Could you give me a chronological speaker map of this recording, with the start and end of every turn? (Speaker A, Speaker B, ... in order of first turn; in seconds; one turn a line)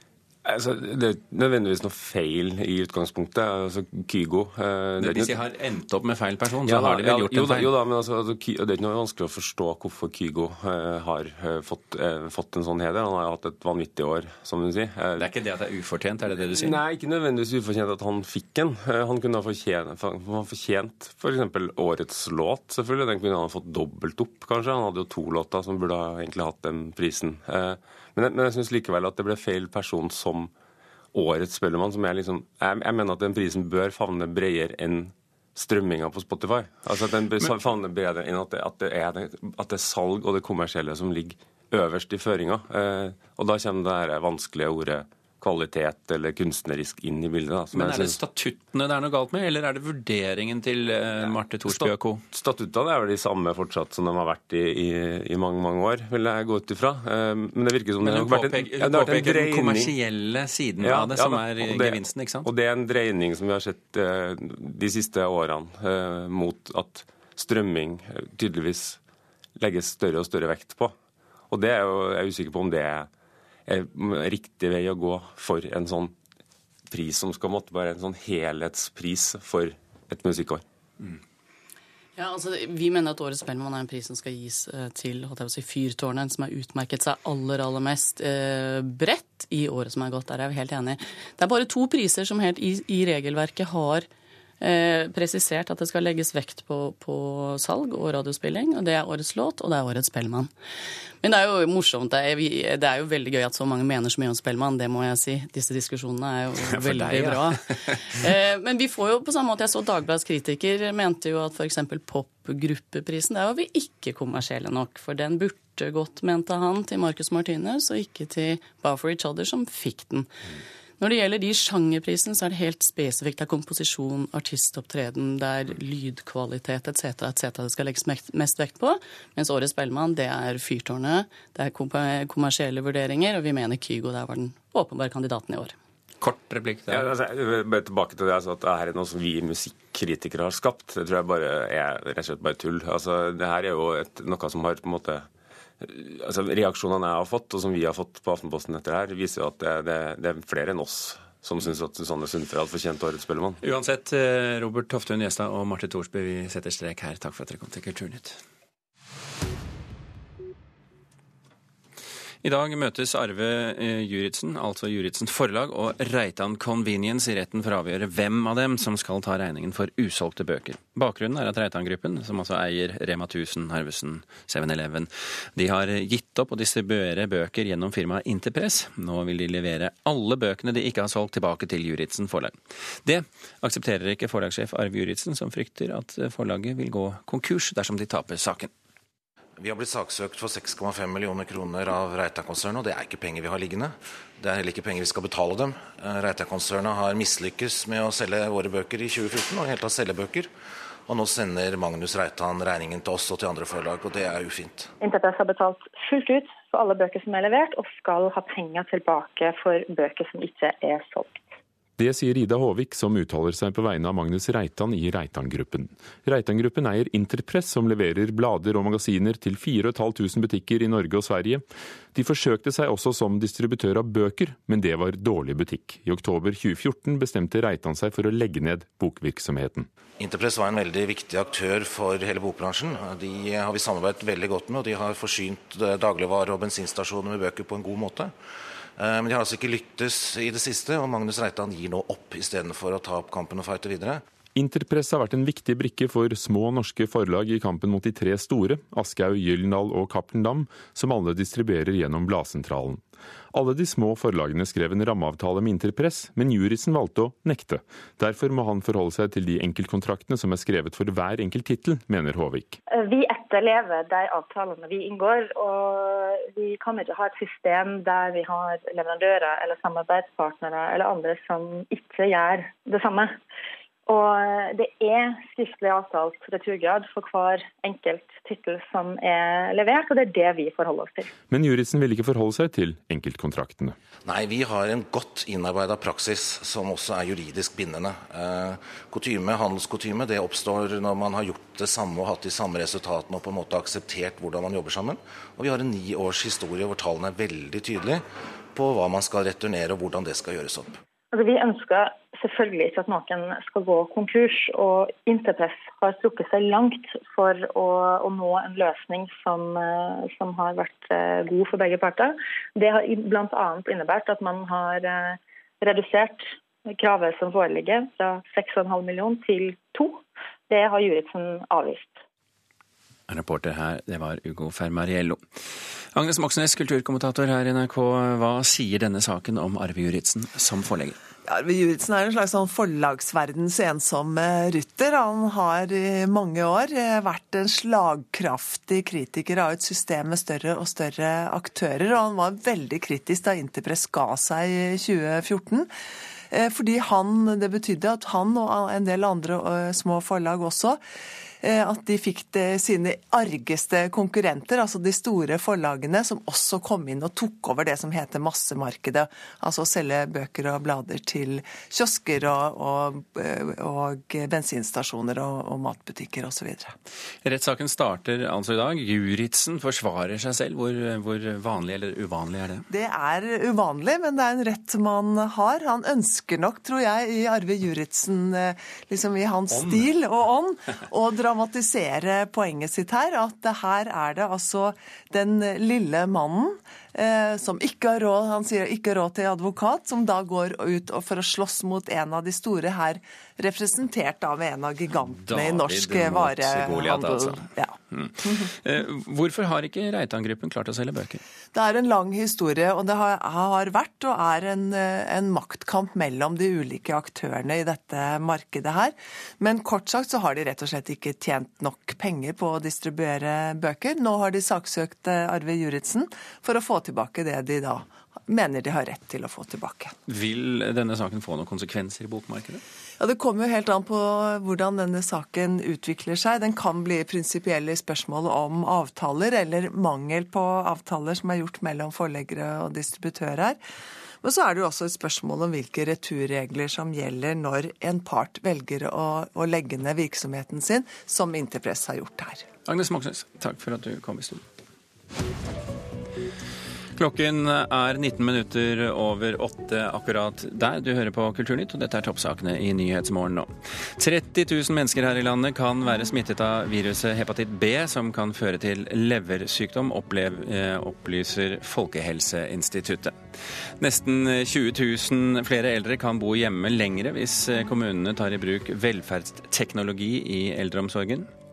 Speaker A: 0.4-5.3
Speaker B: 5.0-7.7
Speaker A: 6.7-15.3
Speaker B: 15.2-16.8
Speaker A: 16.4-30.5
Speaker A: 31.1-48.2
Speaker B: 47.7-52.2
Speaker A: 51.3-59.9
Speaker B: 58.0-62.5
Speaker A: 60.8-69.0
Speaker A: 69.5-70.9
Speaker A: 71.5-73.1
Speaker A: 73.7-76.1
Speaker A: 76.9-80.6
Speaker C: 82.2-94.1
Speaker C: 94.6-100.5
Speaker C: 101.2-120.3
Speaker B: 106.6-108.2
Speaker C: 121.0-135.8
Speaker B: 136.2-137.1
Speaker A: 136.9-145.3
Speaker A: 145.8-153.6
Speaker B: 153.6-158.4
Speaker B: 162.4-188.7
Speaker D: 189.6-200.5
Speaker D: 201.1-204.9
Speaker E: 205.0-211.5
Speaker F: 212.0-229.9
Speaker D: 230.2-238.3
Speaker D: 239.0-244.2
Speaker F: 244.5-262.8
Speaker E: 262.9-273.4
Speaker E: 274.1-281.3
Speaker F: 281.5-283.9
Speaker D: 284.2-301.0
Speaker E: 301.3-322.2
Speaker B: 323.3-325.4
Speaker B: 326.1-331.2
Speaker G: 331.5-345.9
Speaker G: 346.5-351.0
Speaker G: 351.6-366.9
Speaker B: 367.4-372.8
Speaker G: 372.9-398.7
Speaker B: 379.7-380.1
Speaker B: 395.3-401.4
Speaker G: 401.7-420.1
Speaker B: 420.3-422.8
Speaker G: 423.2-433.8
Speaker G: 434.4-442.6
Speaker B: 442.9-444.6
Speaker B: 447.1-463.4
Speaker B: 464.0-471.5